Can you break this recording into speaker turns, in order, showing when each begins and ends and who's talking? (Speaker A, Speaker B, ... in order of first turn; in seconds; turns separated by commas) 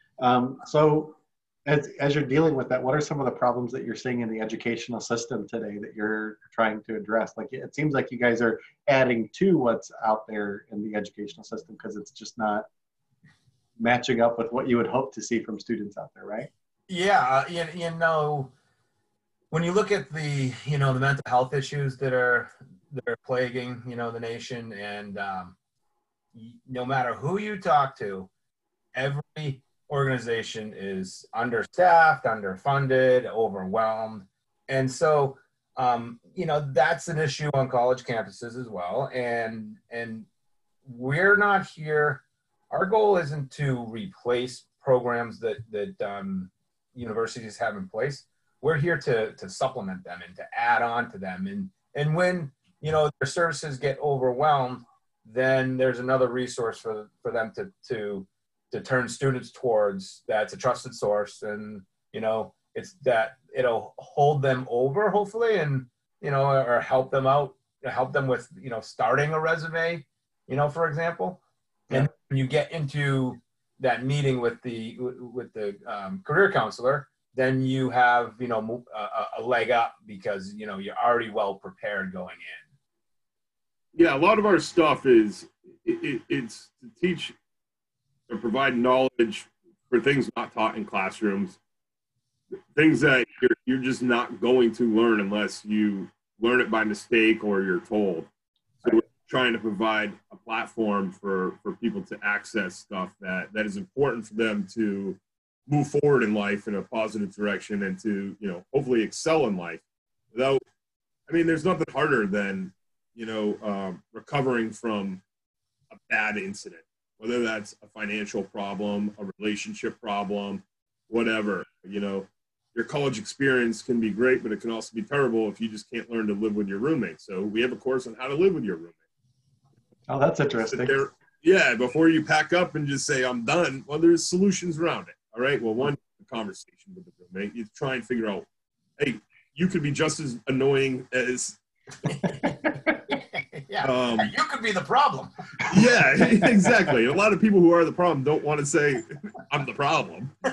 Speaker A: 0.2-12.7, Speaker A: 13.8-16.5, Speaker B: 16.9-18.5, Speaker B: 19.5-25.6, Speaker B: 26.3-28.3, Speaker B: 28.9-40.2, Speaker B: 40.8-82.6, Speaker C: 83.9-87.3, Speaker C: 88.3-91.6, Speaker C: 92.7-98.3, Speaker C: 98.8-110.6, Speaker C: 111.3-115.2, Speaker C: 115.9-129.0, Speaker A: 130.1-130.9, Speaker C: 130.6-138.4, Speaker C: 139.0-141.6, Speaker B: 142.1-145.3, Speaker C: 143.8-144.3, Speaker C: 145.7-150.3, Speaker A: 146.3-146.9